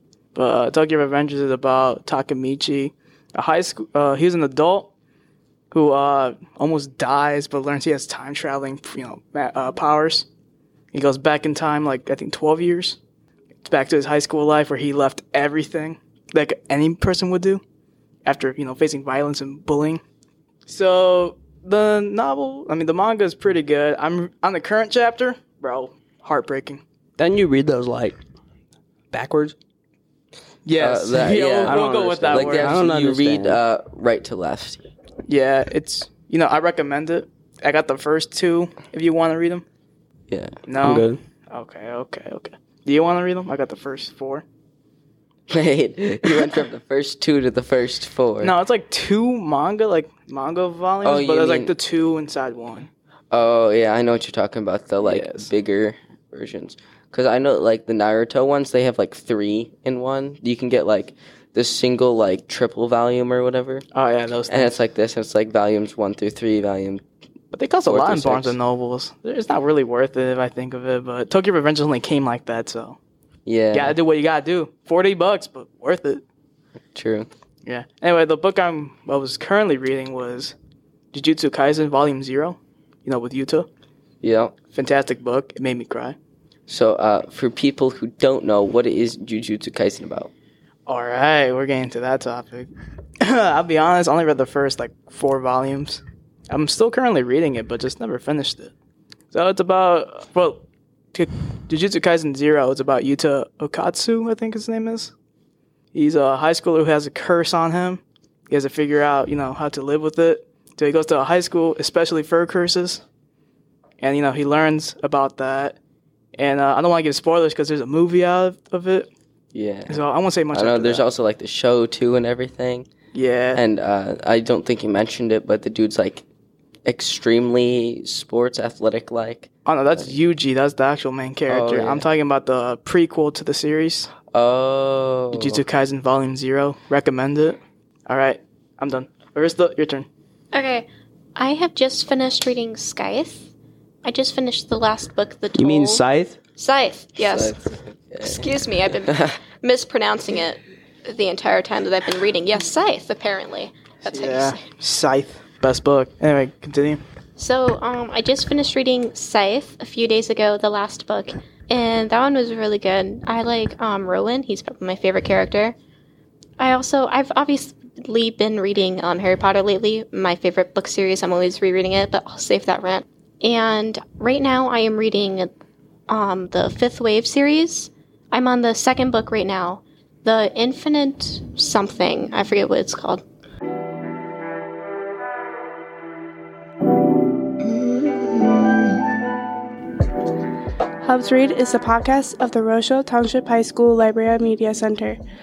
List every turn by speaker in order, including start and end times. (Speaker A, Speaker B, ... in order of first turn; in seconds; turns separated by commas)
Speaker A: 0.3-4.9, Speaker A: 5.7-10.3, Speaker A: 10.9-13.0, Speaker A: 13.7-17.6, Speaker A: 18.2-20.0, Speaker A: 20.7-26.8, Speaker B: 27.2-28.2, Speaker B: 29.1-29.6, Speaker A: 30.6-32.8, Speaker C: 30.8-34.8, Speaker B: 31.6-33.6, Speaker A: 35.3-39.6, Speaker A: 40.7-44.4, Speaker B: 40.8-41.2, Speaker C: 45.5-48.5, Speaker A: 48.4-52.9, Speaker C: 51.0-51.7, Speaker C: 53.3-63.9, Speaker A: 55.0-55.5, Speaker A: 63.9-64.8, Speaker C: 64.5-67.0, Speaker A: 67.5-73.0, Speaker C: 67.9-68.6, Speaker C: 73.5-74.0, Speaker A: 73.7-76.2, Speaker C: 76.9-77.3, Speaker A: 77.7-80.5, Speaker A: 81.1-83.7, Speaker C: 84.2-84.5, Speaker A: 84.7-86.2, Speaker C: 86.7-90.3, Speaker A: 90.9-98.7, Speaker A: 99.3-105.1, Speaker A: 105.9-113.0, Speaker A: 114.0-115.8, Speaker A: 116.4-119.1, Speaker C: 119.5-122.9, Speaker A: 119.9-121.1, Speaker A: 123.1-123.6, Speaker C: 123.5-126.2, Speaker C: 126.9-130.1, Speaker A: 129.7-134.1, Speaker C: 131.5-132.1, Speaker C: 134.3-135.6, Speaker A: 135.3-140.1, Speaker D: 140.5-143.5, Speaker D: 144.0-146.1, Speaker B: 145.6-146.4, Speaker D: 146.6-147.6, Speaker C: 147.2-149.3, Speaker D: 148.2-154.6, Speaker A: 154.1-157.0, Speaker D: 157.4-165.8, Speaker D: 166.6-175.5, Speaker D: 176.1-183.2, Speaker E: 191.0-195.2